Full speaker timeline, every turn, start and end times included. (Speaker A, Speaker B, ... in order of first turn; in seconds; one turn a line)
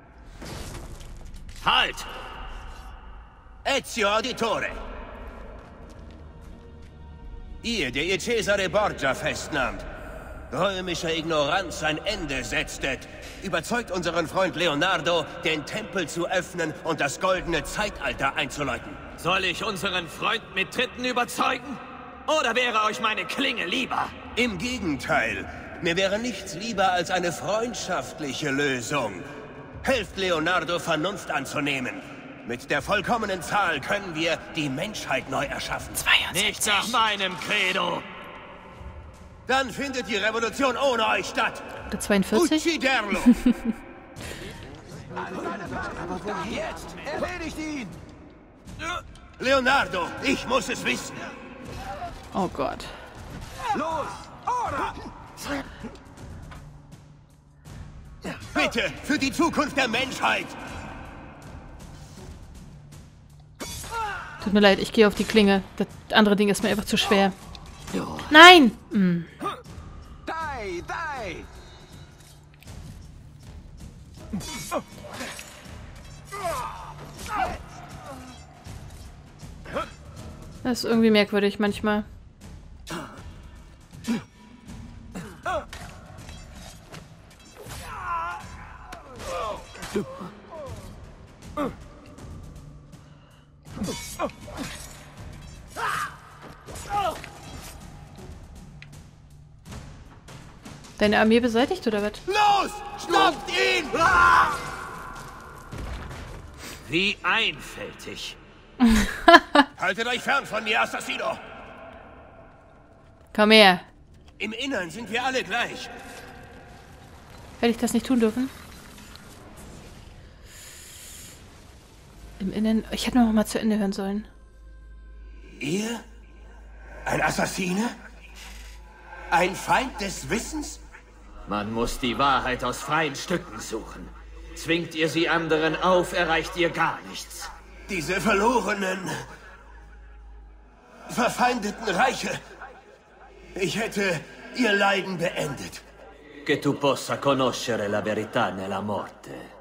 Speaker A: 1.6-2.1
Speaker B: 3.6-4.8
Speaker B: 7.6-9.8
Speaker B: 10.5-19.0
Speaker A: 19.2-24.2
Speaker B: 24.4-29.3
Speaker B: 29.8-36.0
Speaker C: 36.0-37.0
Speaker A: 36.3-38.1
Speaker B: 39.5-41.7
Speaker C: 41.9-42.7
Speaker B: 42.3-43.3
Speaker C: 43.2-43.7
Speaker D: 45.7-47.9
Speaker B: 45.9-46.6
Speaker B: 49.4-51.3
Speaker C: 52.3-53.0
Speaker D: 53.7-54.9
Speaker B: 58.3-60.6
Speaker C: 64.4-67.3
Speaker C: 68.3-69.3
Speaker D: 70.3-71.5
Speaker C: 80.6-82.1
Speaker C: 101.0-102.2
Speaker B: 102.3-104.3
Speaker A: 106.8-108.4
Speaker C: 108.8-109.7
Speaker B: 109.8-111.4
Speaker C: 113.3-113.9
Speaker B: 114.4-115.9
Speaker C: 117.6-118.5
Speaker C: 122.4-124.3
Speaker B: 125.6-126.0
Speaker B: 127.0-128.0
Speaker B: 129.3-130.8
Speaker A: 131.5-137.5
Speaker B: 137.9-139.1
Speaker B: 141.1-142.4
Speaker B: 143.6-145.8
Speaker A: 146.4-149.5